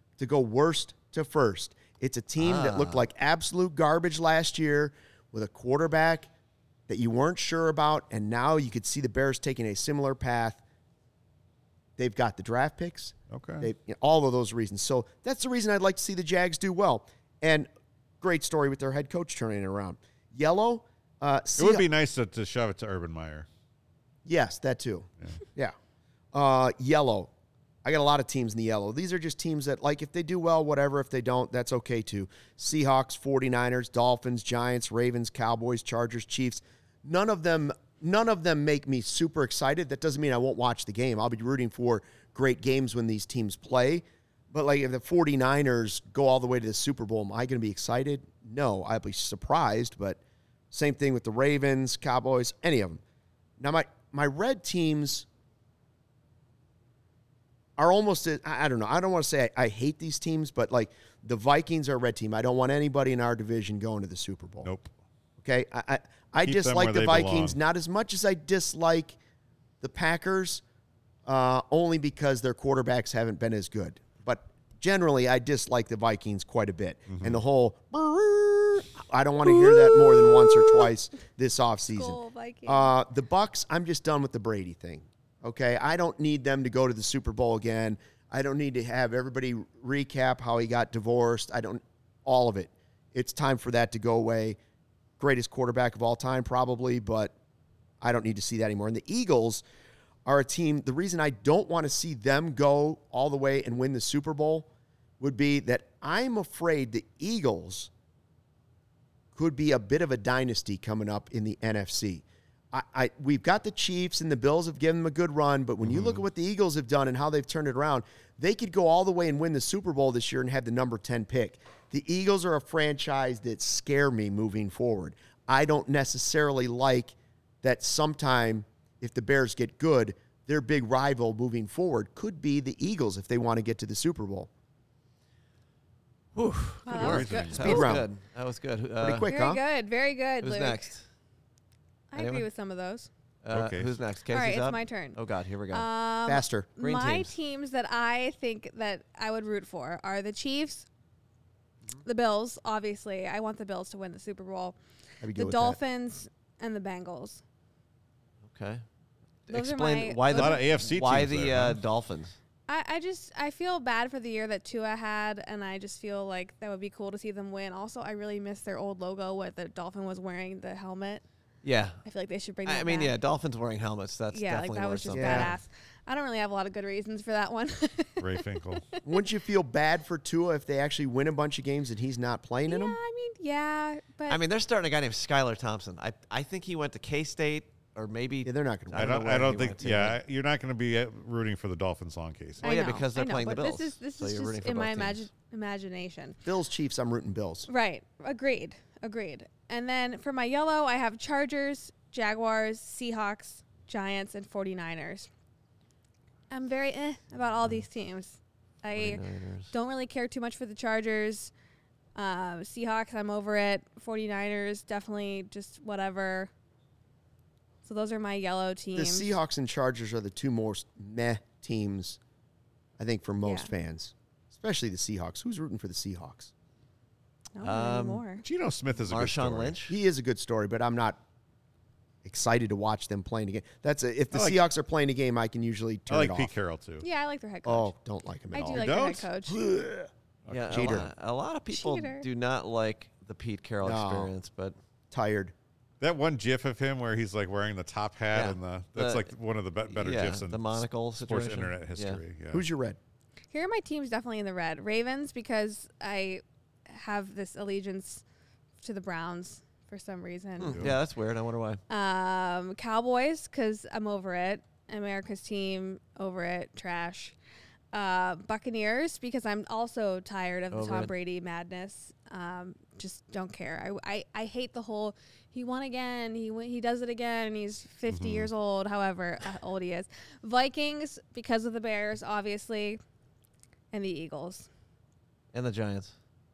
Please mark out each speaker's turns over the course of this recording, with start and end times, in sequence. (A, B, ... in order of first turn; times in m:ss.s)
0:00.2-0:06.3 A
0:02.4-0:03.0 B
0:06.9-0:10.6 A
0:12.0-0:17.7 A
0:13.3-0:13.7 C
0:18.2-0:21.8 A
0:21.6-0:23.5 C
0:24.2-0:25.7 A
0:26.3-0:27.3 A
0:27.8-0:50.2 A
0:50.7-0:53.0 A
0:53.6-0:55.2 A
0:57.8-1:04.7 A
1:04.6-1:04.9 C
1:05.4-1:09.2 A
1:06.4-1:07.6 C
1:09.8-1:10.6 A
1:11.2-1:34.6 A
1:17.1-1:17.4 C
1:19.5-1:20.9 D
1:21.9-1:22.9 D
1:35.2-1:37.3 A
1:38.0-1:39.6 A
1:40.2-1:44.7 A
1:45.2-1:47.9 A
1:49.3-2:14.5 A
1:55.8-1:56.2 C
2:16.4-2:19.3 B
2:16.8-2:17.9 D
2:16.9-2:17.9 C
2:17.6-2:18.1 A
2:19.0-2:19.6 A
2:19.2-2:20.9 D
2:20.4-2:21.0 B
2:22.1-2:23.1 D
2:22.2-2:22.4 B
2:23.4-2:25.9 B
2:23.5-2:23.9 C
2:24.3-2:25.2 D
2:25.7-2:30.8 D
2:26.3-2:26.7 A
2:26.8-2:27.3 B
2:32.0-2:34.8 D
2:35.2-2:35.8 A
2:35.3-2:37.4 D
2:38.4-2:38.8 B
2:39.5-2:42.4 B
2:39.5-2:40.6 D
2:40.3-2:41.8 C
2:42.7-2:51.2 D
2:51.6-2:52.0 B
2:52.0-2:53.2 D
2:52.6-2:55.6 B
2:54.3-2:58.4 D
2:55.1-2:55.5 A
2:58.2-2:58.8 C
2:59.0-3:03.0 A
3:02.7-3:04.4 D
3:04.3-3:10.2 B
3:08.4-3:09.3 A
3:08.9-3:13.0 C
3:12.6-3:15.2 B
3:12.6-3:16.4 D
3:16.4-3:17.7 A
3:17.7-3:25.3 D
3:26.5-3:31.5 D
3:28.9-3:29.7 B
3:32.2-3:36.5 D
3:37.8-3:39.3 D
3:38.9-3:42.2 A
3:43.0-3:46.5 A
3:43.4-3:43.7 D
3:47.6-3:48.4 D
3:47.6-3:48.2 B
3:48.4-3:49.8 C
3:49.0-3:50.0 B
3:49.9-3:51.2 A
3:52.2-3:56.5 A
3:54.3-3:54.6 C
3:56.1-3:57.0 C
3:57.0-3:57.9 D
3:57.6-4:00.1 A
3:58.5-3:59.6 D
3:58.7-3:59.3 C
4:00.4-4:01.0 C
4:00.5-4:04.7 B
4:00.7-4:01.1 A
4:01.7-4:02.3 D
4:03.8-4:04.3 A
4:05.1-4:05.5 A
4:06.0-4:12.6 C
4:08.3-4:09.3 B
4:09.9-4:12.2 B
4:12.5-4:13.0 A
4:13.5-4:18.2 D
4:18.8-4:20.8 D
4:20.6-4:21.8 B
4:20.7-4:21.0 C
4:21.9-4:27.4 D
4:27.9-4:43.0 D
4:30.7-4:31.1 B
4:38.1-4:38.5 C
4:43.9-4:44.7 D
4:45.5-4:46.1 B